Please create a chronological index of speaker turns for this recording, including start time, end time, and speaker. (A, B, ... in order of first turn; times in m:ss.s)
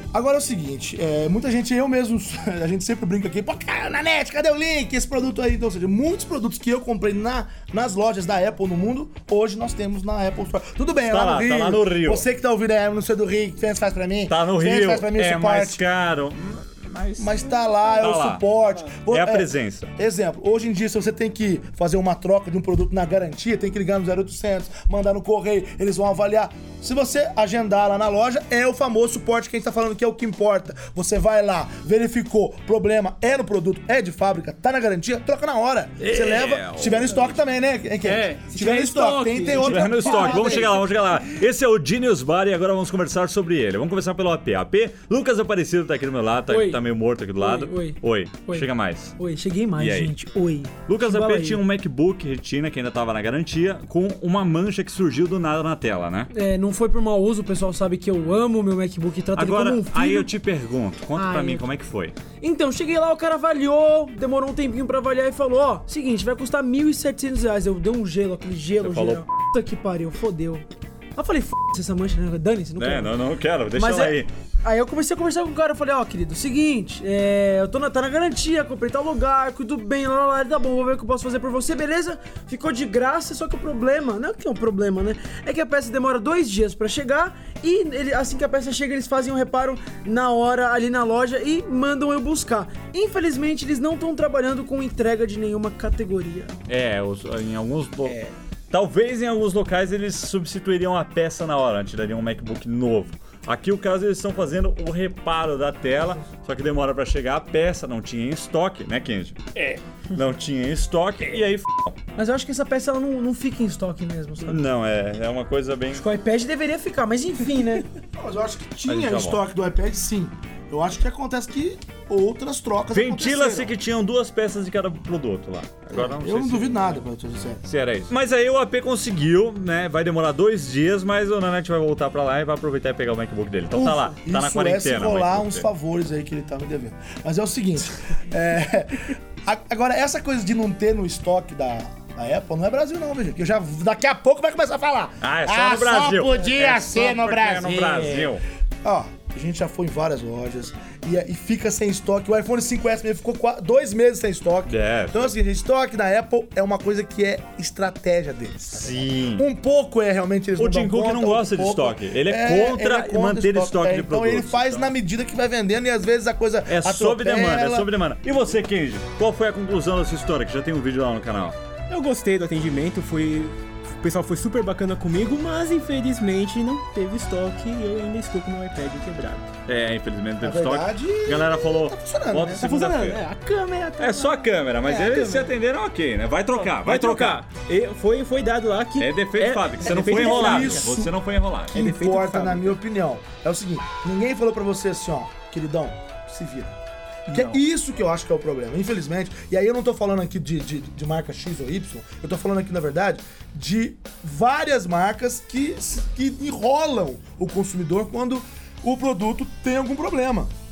0:00.1-0:15.8 A
0:11.1-0:12.3 B
0:14.3-0:18.4 B
0:17.2-0:40.8 A
0:19.1-0:19.9 B
0:36.0-0:37.2 B
0:38.0-0:40.8 C
0:39.6-0:49.1 B
0:46.5-0:46.8 D
0:47.4-0:51.6 D
0:49.8-0:50.1 B
0:50.9-0:56.3 B
0:56.3-1:00.3 D
0:59.4-1:02.2 B
1:01.1-1:01.7 D
1:02.4-1:13.2 D
1:08.8-1:09.2 B
1:12.8-1:14.3 B
1:13.7-1:36.6 D
1:36.7-1:38.2 B
1:38.0-1:38.3 C
1:38.7-1:52.0 B
1:52.2-1:54.6 D
1:54.4-1:56.0 B
1:55.9-1:57.8 D
1:58.2-2:03.7 A
1:58.9-1:59.4 B
2:02.9-2:07.0 B
2:05.9-2:07.6 A
2:07.6-2:15.7 B
2:13.7-2:28.2 A
2:25.2-2:28.4 B
2:27.8-2:28.3 C
2:28.8-2:47.9 A
2:34.7-2:35.3 B
2:38.7-2:39.5 B
2:40.6-2:44.9 B
2:46.7-2:51.6 B
2:51.9-2:59.5 C
2:59.6-3:03.2 B
3:00.4-3:02.7 A
3:02.6-3:05.6 C
3:04.0-3:07.4 B
3:06.5-3:11.0 C
3:09.0-3:11.8 B
3:09.8-3:11.1 A
3:11.7-3:12.8 C
3:11.7-3:16.8 A
3:17.3-3:17.6 C
3:17.3-3:30.5 A